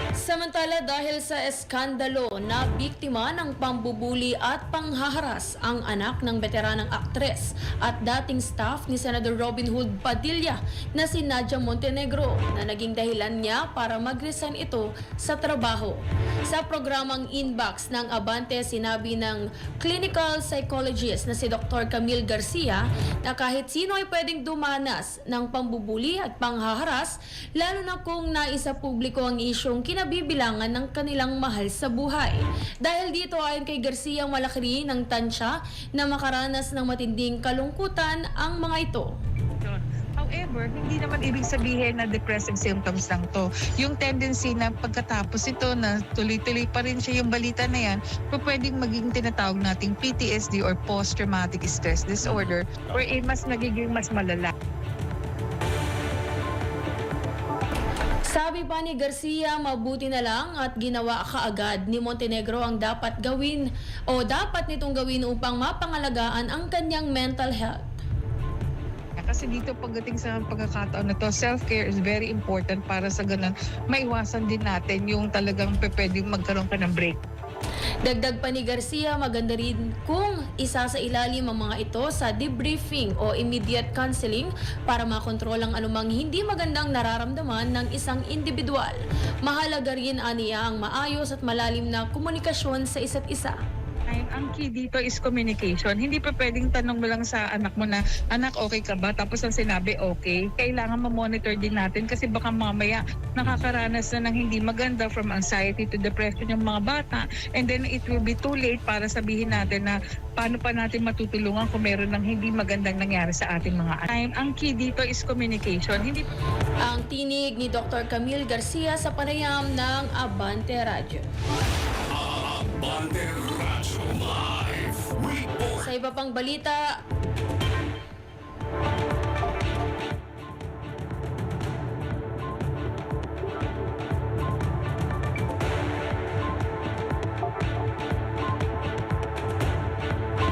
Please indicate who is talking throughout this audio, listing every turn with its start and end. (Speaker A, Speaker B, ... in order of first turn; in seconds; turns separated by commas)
Speaker A: 0.2-39.1, Speaker B: 39.6-54.5, Speaker A: 58.3-67.9, Speaker B: 69.2-77.2, Speaker A: 78.0-93.6, Speaker B: 94.1-116.3, Speaker A: 116.8-121.3, Speaker C: 122.2-125.7, Speaker A: 125.8-126.9